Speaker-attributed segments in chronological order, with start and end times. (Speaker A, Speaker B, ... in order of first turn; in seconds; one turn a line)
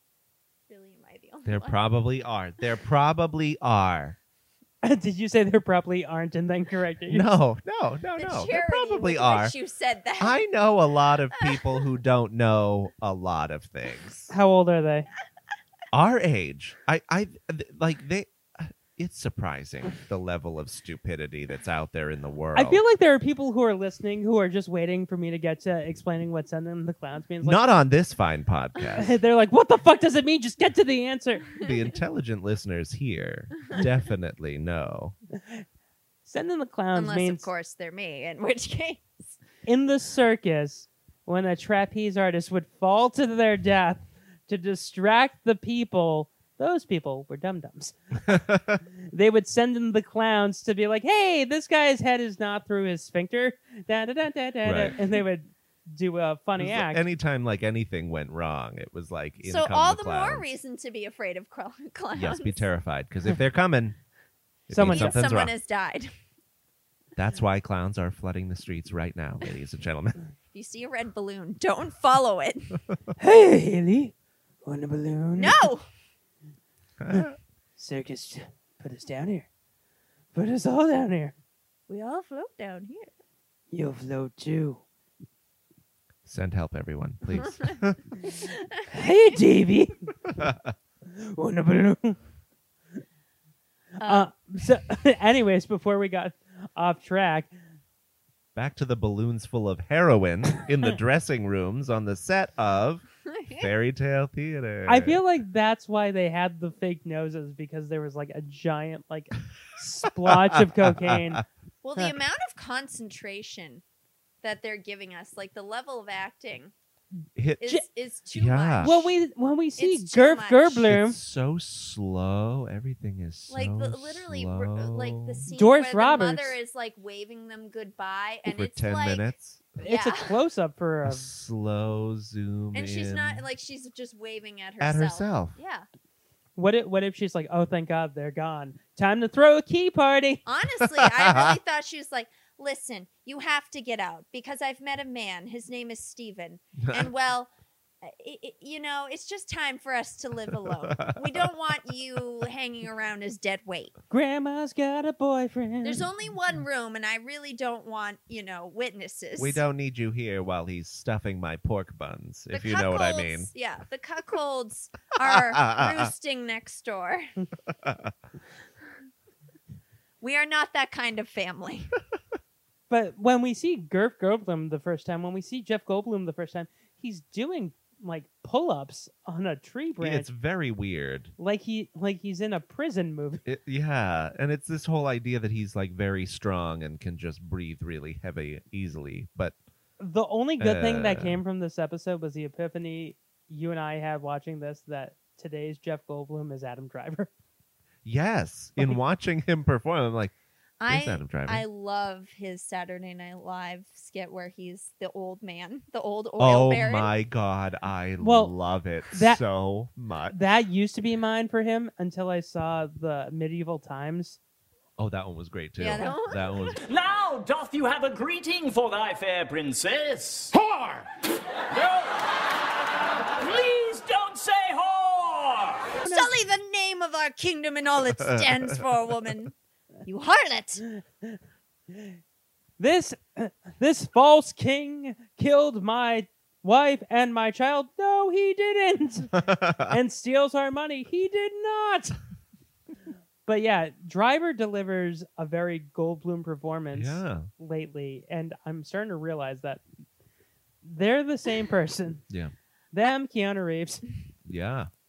Speaker A: 0.7-1.8
Speaker B: 1.4-4.2
Speaker C: 4.8-7.3
Speaker B: 7.1-9.5
Speaker A: 8.2-10.4
Speaker B: 10.2-14.3
Speaker A: 11.4-11.8
Speaker C: 14.3-15.1
Speaker B: 15.9-22.8
Speaker C: 22.5-27.6
Speaker B: 27.4-29.1
Speaker C: 29.0-31.4
Speaker B: 31.6-35.1
Speaker C: 35.4-35.6
Speaker C: 36.2-37.5
Speaker A: 36.9-39.3
Speaker C: 39.6-48.0
Speaker B: 48.3-48.8
Speaker C: 49.1-57.0
Speaker B: 54.6-54.9
Speaker B: 56.6-60.5
Speaker A: 59.4-62.7
Speaker B: 62.1-64.0
Speaker B: 64.7-65.5
Speaker C: 64.7-65.2
Speaker A: 64.8-66.1
Speaker B: 67.2-70.2
Speaker A: 70.5-72.8
Speaker C: 73.2-74.1
Speaker C: 74.6-75.6
Speaker A: 75.4-75.9
Speaker B: 77.0-77.4
Speaker C: 77.8-79.5
Speaker C: 80.3-81.3
Speaker A: 81.9-83.1
Speaker C: 83.7-84.8
Speaker B: 86.2-88.0
Speaker A: 87.3-87.8
Speaker A: 88.3-89.1
Speaker C: 88.9-90.0
Speaker B: 90.4-90.7
Speaker C: 91.2-92.2
Speaker A: 94.0-94.3
Speaker C: 94.0-97.5
Speaker B: 98.5-105.2
Speaker A: 103.3-103.7
Speaker C: 104.8-111.4
Speaker B: 110.2-111.4
Speaker A: 111.8-113.8
Speaker A: 114.4-116.7
Speaker B: 117.3-117.7
Speaker A: 117.6-119.2
Speaker B: 118.3-118.9
Speaker C: 118.8-121.2
Speaker A: 119.8-120.9
Speaker B: 120.8-125.5
Speaker A: 123.5-130.3
Speaker C: 125.5-126.5
Speaker B: 128.4-129.6
Speaker C: 129.8-131.3
Speaker B: 131.0-133.4
Speaker A: 132.7-135.8
Speaker B: 134.8-135.6
Speaker C: 136.6-140.4
Speaker A: 140.4-147.5
Speaker B: 141.0-141.5
Speaker B: 146.8-147.1
Speaker A: 148.0-153.9
Speaker B: 150.9-151.4
Speaker C: 154.1-156.1
Speaker A: 155.8-159.6
Speaker B: 159.4-163.5
Speaker A: 162.5-167.3
Speaker B: 165.2-166.1
Speaker B: 167.8-168.1
Speaker A: 170.2-171.9
Speaker C: 172.9-180.3
Speaker B: 180.0-181.3
Speaker C: 181.4-183.4
Speaker B: 183.4-189.6
Speaker C: 190.0-197.3
Speaker B: 190.6-191.4
Speaker B: 198.0-200.3
Speaker A: 200.8-207.1
Speaker B: 200.9-201.6
Speaker B: 206.4-210.3
Speaker C: 208.2-208.5
Speaker C: 209.1-209.4
Speaker C: 210.3-214.4
Speaker B: 215.0-216.8
Speaker A: 215.8-216.7
Speaker D: 216.8-221.1
Speaker D: 221.7-222.4
Speaker D: 223.4-226.0
Speaker C: 226.0-226.3
Speaker A: 226.1-229.5
Speaker B: 228.2-228.5
Speaker A: 230.0-230.8
Speaker C: 230.9-231.3
Speaker C: 232.8-239.3
Speaker B: 239.3-240.0
Speaker C: 239.9-242.1
Speaker C: 243.4-249.8
Speaker B: 246.9-247.5
Speaker C: 250.8-252.2
Speaker C: 252.9-254.0
Speaker B: 254.4-254.9